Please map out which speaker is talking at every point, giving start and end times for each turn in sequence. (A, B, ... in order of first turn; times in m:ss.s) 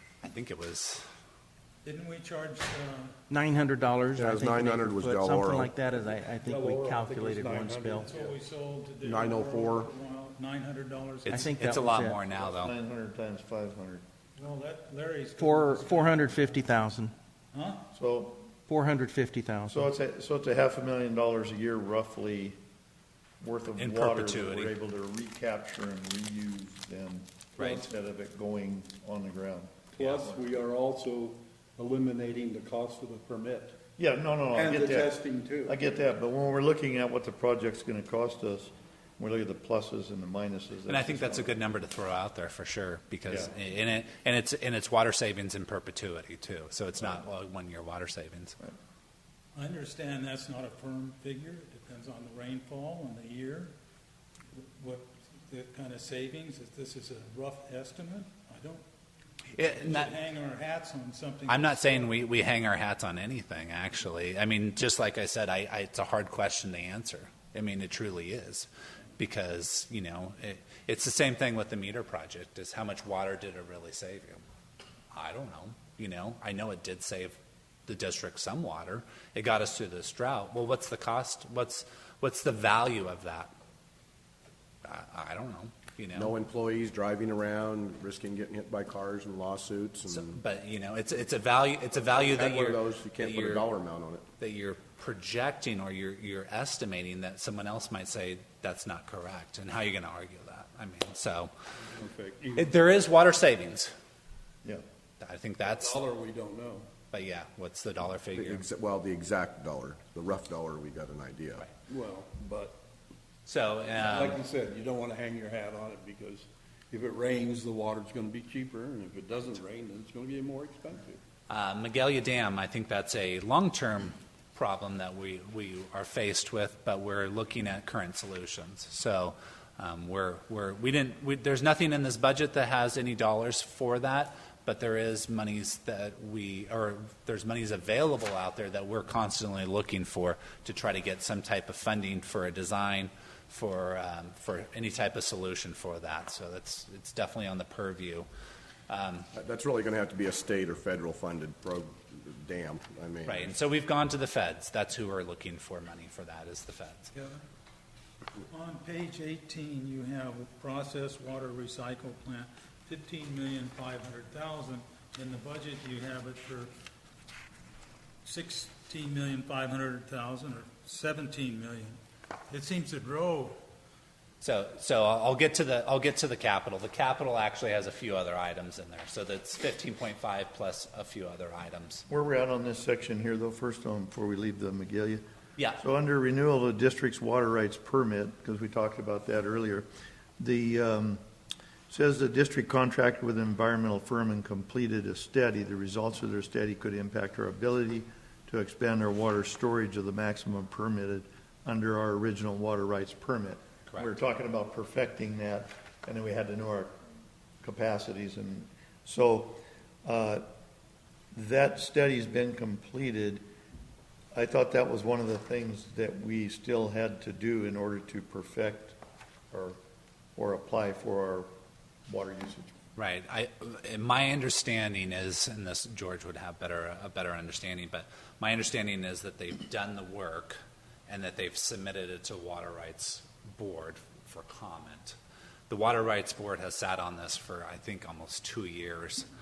0:00.2-0:01.0 A
0:01.8-0:03.1 B
0:03.3-0:08.1 C
0:04.1-0:05.7 D
0:06.4-0:08.3 E
0:08.1-0:11.5 B
0:09.0-0:09.9 D
0:11.3-0:12.2 C
0:11.3-0:12.7 A
0:12.5-0:14.0 F
0:14.4-0:16.6 B
0:15.4-0:17.1 C
0:17.5-0:17.8 B
0:17.9-0:18.4 F
0:18.7-0:19.8 C
0:19.7-0:22.6 F
0:23.4-0:30.4 F
0:23.8-0:24.7 A
0:27.6-0:27.8 A
0:29.9-0:33.8 E
0:34.0-0:41.7 F
0:34.5-0:35.8 E
0:40.9-0:48.6 A
0:43.2-0:43.5 F
0:49.6-0:53.7 B
0:54.5-0:58.8 B
0:59.6-1:00.1 A
0:59.6-1:02.2 B
1:01.5-1:08.7 A
1:09.2-1:14.4 A
1:15.1-1:17.4 A
1:17.9-1:23.5 A
1:24.8-1:26.3 A
1:26.1-1:30.4 D
1:30.1-1:33.7 A
1:32.1-1:34.2 D
1:34.4-1:41.5 A
1:41.9-1:42.7 E
1:42.6-1:43.9 A
1:45.2-1:46.0 A
1:45.6-1:46.9 E
1:47.1-1:48.7 A
1:48.3-1:51.7 D
1:51.9-1:52.7 E
1:53.4-1:54.4 A
1:54.0-2:01.2 E
2:01.5-2:28.3 A
2:28.9-2:29.3 A
2:29.3-2:33.5 D
2:33.2-2:37.1 A
2:37.1-2:37.4 B
2:38.5-2:46.7 B
2:48.2-2:52.0 B
2:52.5-2:53.6 B
2:54.4-3:02.0 A
3:02.1-3:05.2 F
3:05.7-3:09.9 F
3:10.4-3:11.2 F
3:11.9-3:26.9 F
3:27.6-3:30.4 F
3:31.3-3:33.4 F
3:34.3-3:39.0 F
3:39.5-3:39.8 F
3:40.4-3:41.5 F
3:42.1-3:42.7 F
3:43.0-3:55.2 A
3:55.7-3:59.3 A